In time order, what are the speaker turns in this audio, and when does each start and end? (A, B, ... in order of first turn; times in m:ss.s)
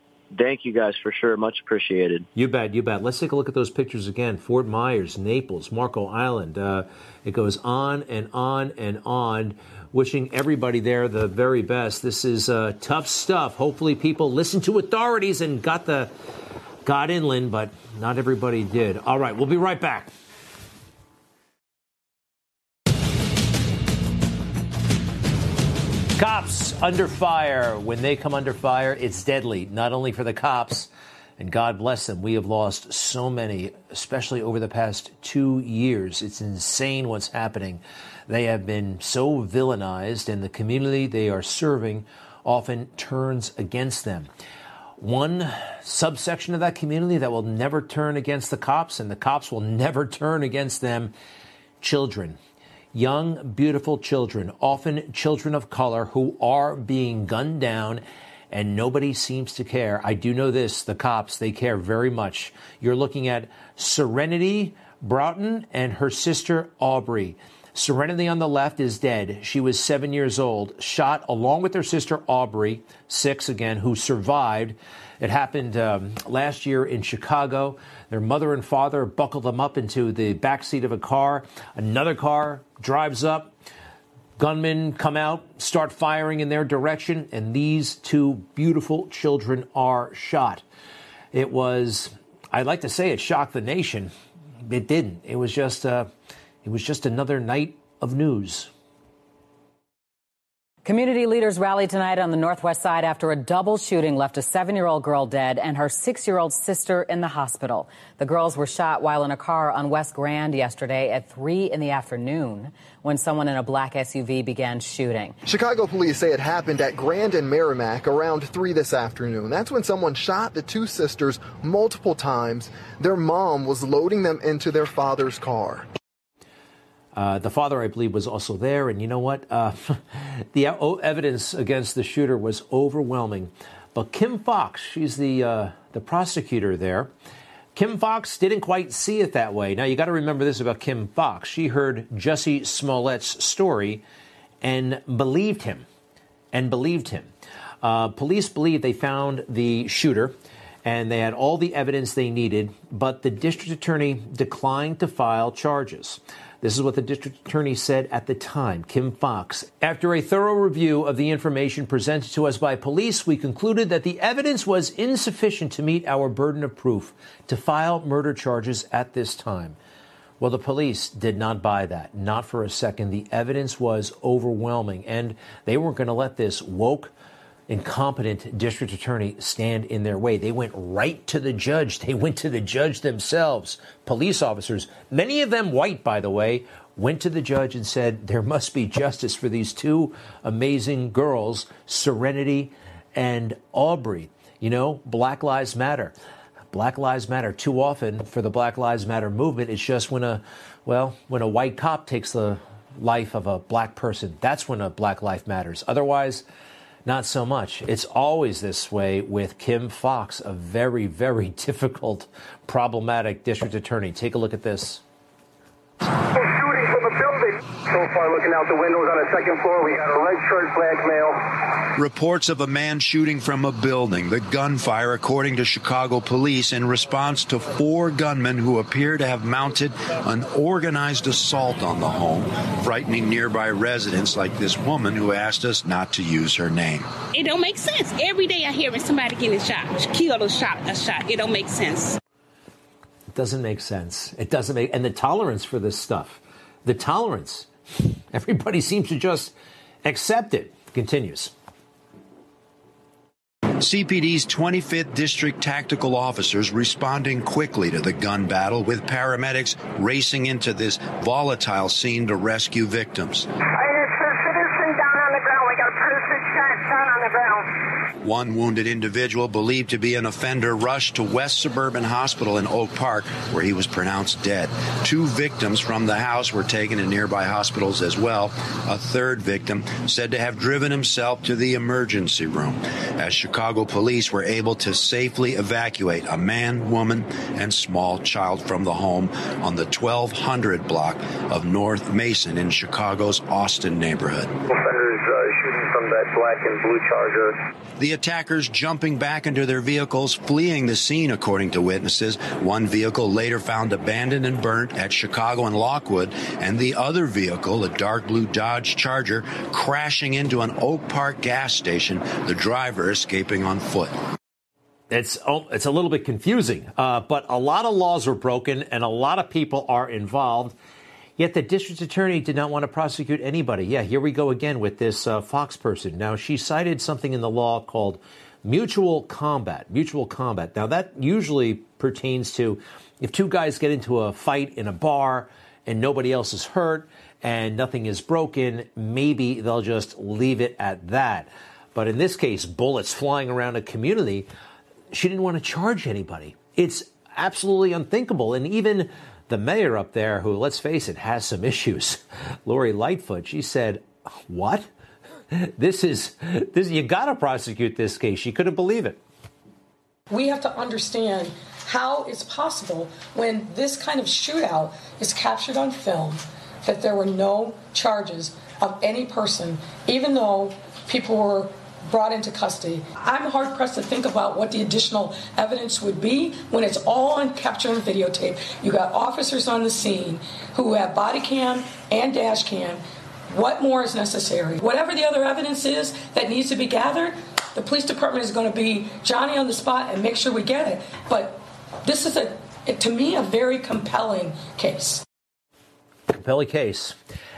0:00.3-0:02.2 A
0:02.3-0:16.1 B
0:16.8-0:20.1 B
0:26.2-0:44.3 B
0:45.0-0:51.1 B
0:51.8-0:52.4 B
0:52.9-1:23.5 B
1:24.4-1:30.6 B
1:31.3-1:34.1 B
1:34.6-1:36.1 B
1:36.6-1:38.7 B
1:40.8-1:55.4 C
1:55.5-2:05.9 D
2:07.1-2:17.1 B
2:17.7-2:24.0 B
2:24.6-2:25.8 B
2:26.5-2:27.3 B
2:27.8-2:30.3 B
2:30.8-2:49.8 B
2:50.4-2:57.1 B
2:57.7-3:16.1 B
3:16.7-3:26.4 B
3:27.0-3:35.0 B
3:36.4-3:41.4 E
3:41.9-3:57.1 F
3:57.3-4:02.2 G
4:03.3-4:07.7 B
4:08.3-4:09.5 B
4:10.0-4:11.5 B
4:13.8-4:23.5 F
4:23.7-4:27.7 E
4:28.2-4:54.5 F
4:54.7-4:57.6 E
4:58.0-5:14.1 F
5:15.1-5:20.8 B
5:21.4-5:44.5 B
5:45.1-5:54.9 B
5:55.5-5:59.2 B
6:00.3-6:35.2 H
6:36.3-6:37.2 B